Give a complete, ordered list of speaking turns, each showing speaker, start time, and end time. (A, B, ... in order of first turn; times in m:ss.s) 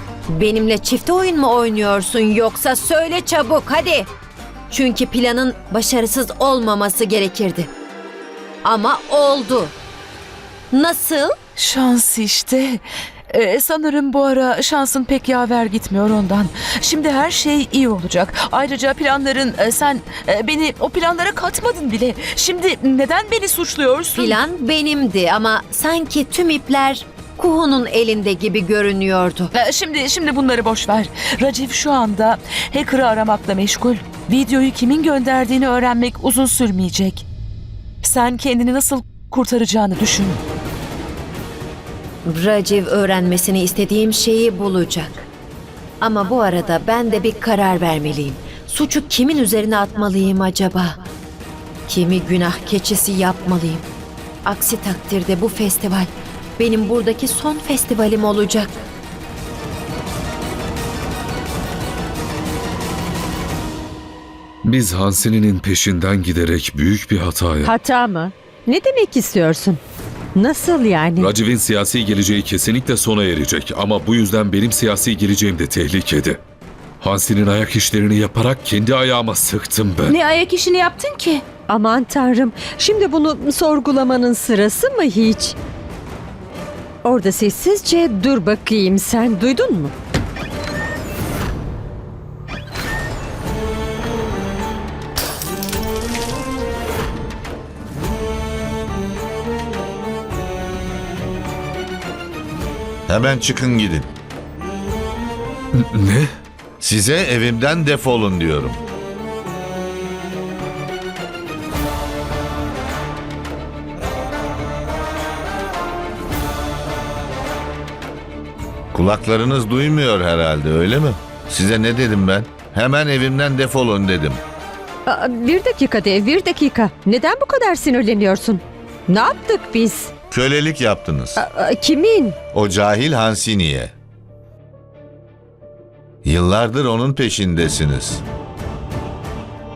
0:00.3-0:04.1 A
0:04.7-0:07.7 A
0:08.6-0:09.8 A
0:10.7-0:11.4 A
0:11.6-0:24.4 B
0:24.2-0:29.5 A
0:29.5-0:37.3 B
0:38.0-0:40.4 B
0:42.2-0:45.3 A
0:46.0-0:51.0 A
0:51.9-0:53.9 A
0:54.4-0:58.8 A
1:04.6-1:07.8 C
1:07.6-1:09.8 D
1:10.4-1:11.3 D
1:11.2-1:16.4 C
1:17.0-1:20.2 C
1:20.1-1:21.4 B
1:21.7-1:25.6 D
1:27.0-1:29.9 D
1:43.1-1:44.1 E
1:45.9-1:46.3 C
1:46.8-1:48.8 E
1:58.9-2:04.4 E
2:05.1-2:10.1 D
2:10.3-2:11.4 E
2:11.4-2:12.4 D
2:12.5-2:13.9 E
2:16.2-2:18.2 E